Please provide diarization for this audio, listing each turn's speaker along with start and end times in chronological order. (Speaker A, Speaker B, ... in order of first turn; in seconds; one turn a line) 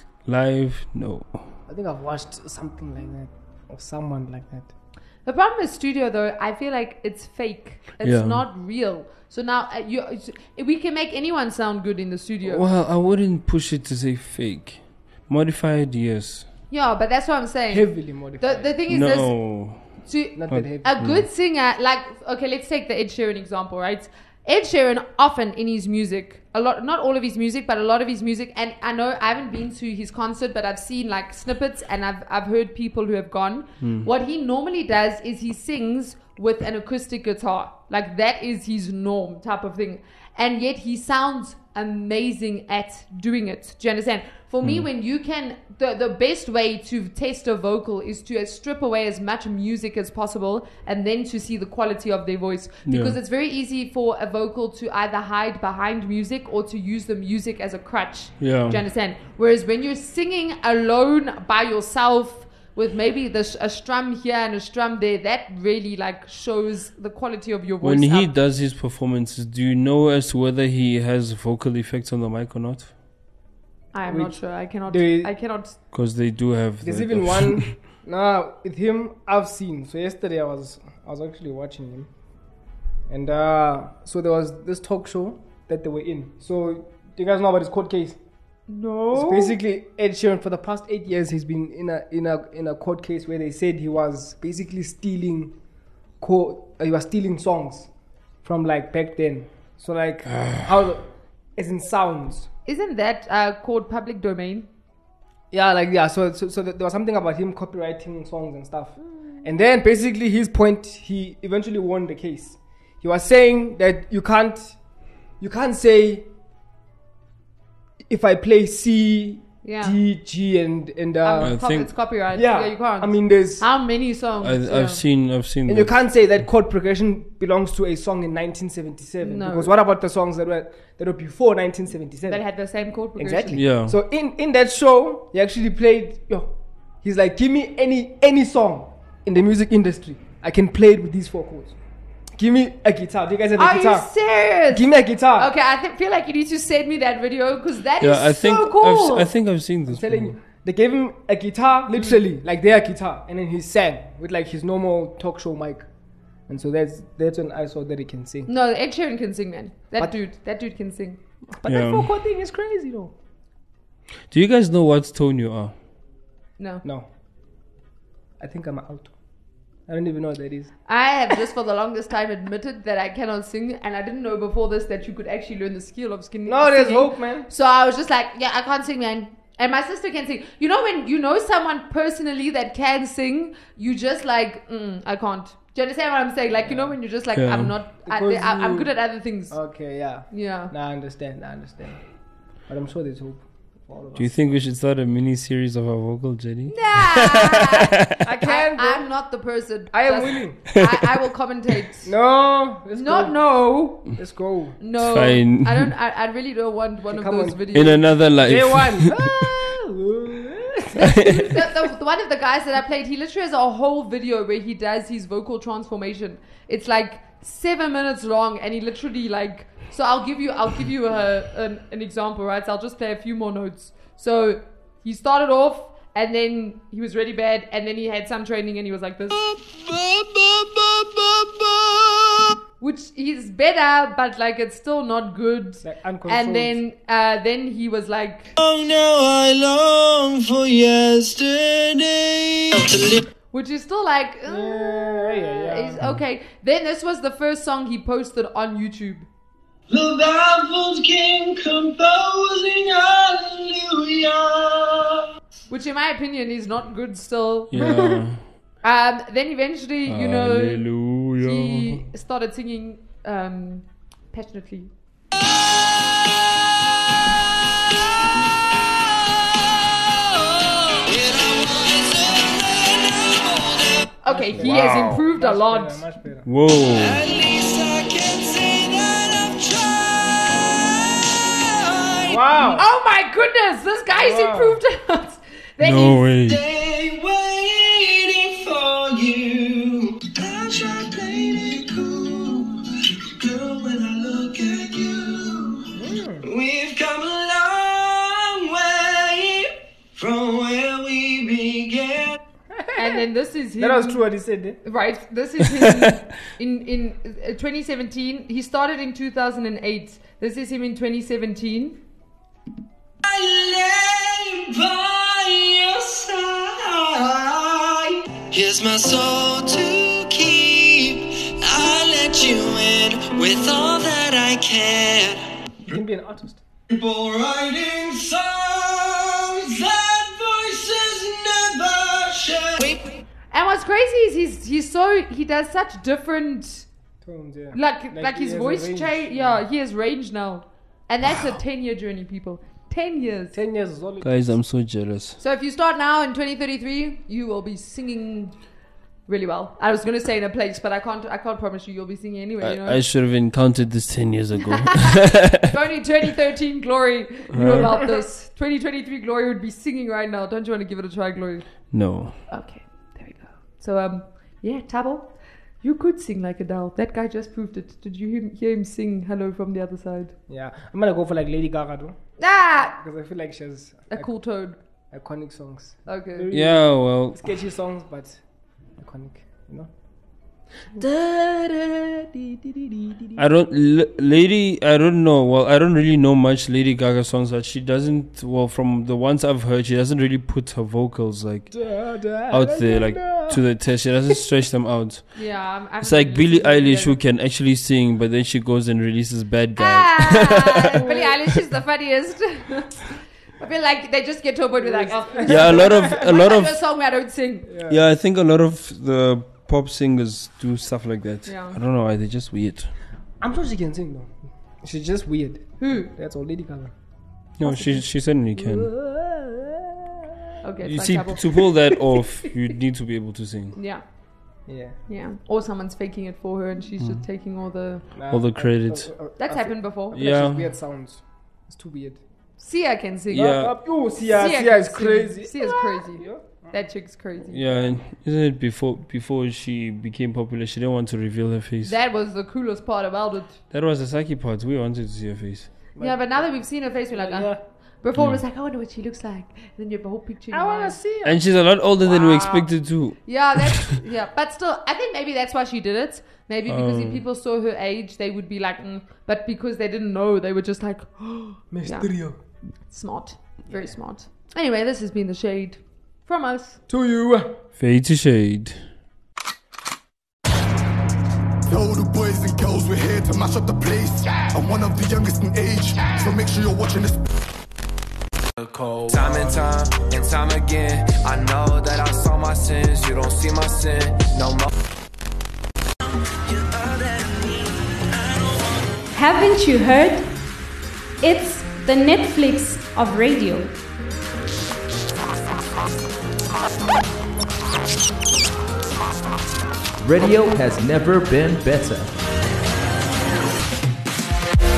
Speaker A: 0.2-1.5
Speaker B: 1.7-4.7
Speaker C: 5.2-12.6
Speaker A: 8.0-8.4
Speaker A: 12.4-16.5
Speaker C: 16.7-19.4
Speaker B: 17.7-18.8
Speaker A: 18.9-19.9
Speaker C: 20.0-68.3
Speaker B: 20.4-21.0
Speaker A: 20.5-21.3
Speaker A: 33.8-34.1
Speaker A: 52.9-53.2
Speaker A: 58.4-58.8
Speaker A: 67.8-72.9
Speaker C: 73.9-75.8
Speaker B: 74.1-75.3
Speaker A: 75.9-77.8
Speaker B: 76.8-82.1
Speaker B: 83.1-88.2
Speaker C: 88.7-89.6
Speaker B: 89.1-95.6
Speaker B: 96.2-97.9
Speaker B: 98.4-102.5
Speaker C: 102.7-104.7
Speaker B: 105.5-114.8
Speaker B: 115.4-116.3
Speaker B: 118.1-121.6
Speaker C: 119.6-120.0
Speaker C: 121.2-125.0
Speaker A: 121.4-121.9
Speaker B: 122.3-123.7
Speaker A: 124.4-126.0
Speaker B: 125.7-132.4
Speaker C: 129.2-129.8
Speaker C: 132.3-133.6
Speaker B: 133.2-141.8
Speaker A: 133.6-134.0
Speaker B: 142.3-144.1
Speaker C: 143.6-149.3
Speaker B: 144.7-145.5
Speaker A: 148.0-150.4
Speaker B: 149.9-155.9
Speaker B: 156.5-158.5
Speaker C: 158.5-161.2
Speaker B: 161.5-163.2
Speaker A: 161.7-162.1
Speaker A: 164.3-165.7
Speaker C: 166.6-166.8
Speaker B: 166.8-167.1
Speaker B: 168.4-169.1
Speaker B: 169.9-170.7
Speaker C: 170.9-189.6
Speaker B: 176.5-177.5
Speaker B: 186.6-187.0
Speaker A: 187.4-187.8
Speaker B: 188.1-189.0
Speaker B: 189.5-192.0
Speaker C: 190.3-190.7
Speaker B: 192.7-194.4
Speaker A: 194.2-198.2
Speaker C: 196.7-202.1
Speaker B: 198.2-199.1
Speaker B: 199.9-200.6
Speaker B: 202.1-203.4
Speaker C: 203.0-204.1
Speaker B: 204.1-204.8
Speaker C: 204.8-208.2
Speaker A: 205.0-205.9
Speaker B: 207.1-207.8
Speaker A: 207.7-209.5
Speaker B: 208.4-211.3
Speaker C: 210.9-229.4
Speaker A: 211.2-211.6
Speaker D: 229.3-232.6
Speaker C: 232.8-238.5
Speaker B: 235.8-236.8
Speaker D: 238.6-243.3
Speaker C: 243.5-249.3
Speaker B: 244.5-246.0
Speaker D: 249.9-255.3
Speaker C: 255.7-257.7
Speaker A: 257.7-258.4
Speaker B: 257.8-258.2
Speaker C: 258.8-264.9
Speaker A: 260.1-262.0
Speaker D: 269.4-274.1
Speaker C: 274.2-276.0
Speaker B: 274.3-276.5
Speaker A: 274.6-275.2
Speaker A: 276.5-277.2
Speaker D: 276.9-282.4
Speaker B: 282.2-282.9
Speaker C: 282.8-286.2
Speaker B: 284.1-284.8
Speaker A: 285.8-286.6
Speaker D: 286.4-302.4
Speaker B: 295.9-296.5
Speaker B: 302.7-303.3
Speaker C: 303.0-304.2
Speaker B: 303.8-304.8
Speaker C: 304.8-312.0
Speaker D: 313.2-325.4
Speaker B: 325.9-326.6
Speaker D: 326.9-333.2
Speaker C: 333.5-336.9
Speaker B: 337.2-339.6
Speaker C: 337.7-343.6
Speaker B: 343.5-344.3
Speaker A: 344.2-345.4
Speaker C: 345.4-348.6
Speaker C: 349.3-353.0
Speaker A: 352.6-355.7
Speaker C: 354.9-370.4
Speaker A: 357.5-358.0
Speaker A: 361.9-362.4
Speaker B: 370.5-372.2
Speaker C: 372.4-373.0
Speaker B: 372.8-374.3
Speaker C: 374.1-374.8
Speaker B: 375.1-378.4
Speaker C: 376.1-376.5
Speaker A: 376.5-377.5
Speaker B: 379.0-379.9
Speaker B: 380.9-383.4
Speaker A: 383.4-391.8
Speaker B: 391.7-393.6
Speaker A: 392.5-401.0
Speaker C: 395.4-397.2
Speaker C: 399.8-407.7
Speaker B: 400.9-401.4
Speaker B: 404.8-406.3
Speaker A: 405.5-406.8
Speaker B: 407.7-408.1
Speaker A: 407.9-412.9
Speaker C: 411.5-411.8
Speaker B: 413.4-416.9
Speaker C: 415.8-416.1
Speaker A: 417.6-418.9
Speaker C: 417.6-418.1
Speaker B: 418.6-420.4
Speaker C: 420.6-422.0
Speaker A: 420.8-423.8
Speaker C: 423.8-424.0
Speaker B: 424.7-425.0
Speaker C: 425.1-428.1
Speaker B: 428.1-432.2
Speaker A: 428.3-429.1
Speaker C: 429.4-430.3
Speaker A: 430.1-430.7
Speaker C: 432.6-437.9
Speaker B: 433.3-436.8
Speaker A: 433.3-433.7
Speaker A: 437.5-441.9
Speaker C: 441.8-443.6
Speaker A: 443.7-445.7
Speaker B: 445.9-447.6
Speaker C: 446.0-451.0
Speaker A: 448.2-448.4
Speaker B: 450.5-451.4
Speaker A: 451.2-453.9
Speaker C: 452.0-452.7
Speaker C: 453.2-462.1
Speaker A: 456.7-457.2
Speaker B: 461.7-462.4
Speaker C: 462.9-466.8
Speaker B: 463.7-464.0
Speaker B: 466.9-467.6
Speaker A: 467.8-468.8
Speaker E: 471.7-477.2
Speaker F: 479.1-484.7
Speaker D: 486.0-489.1
Speaker G: 489.1-490.3
Speaker G: 491.2-493.7
Speaker H: 500.0-502.1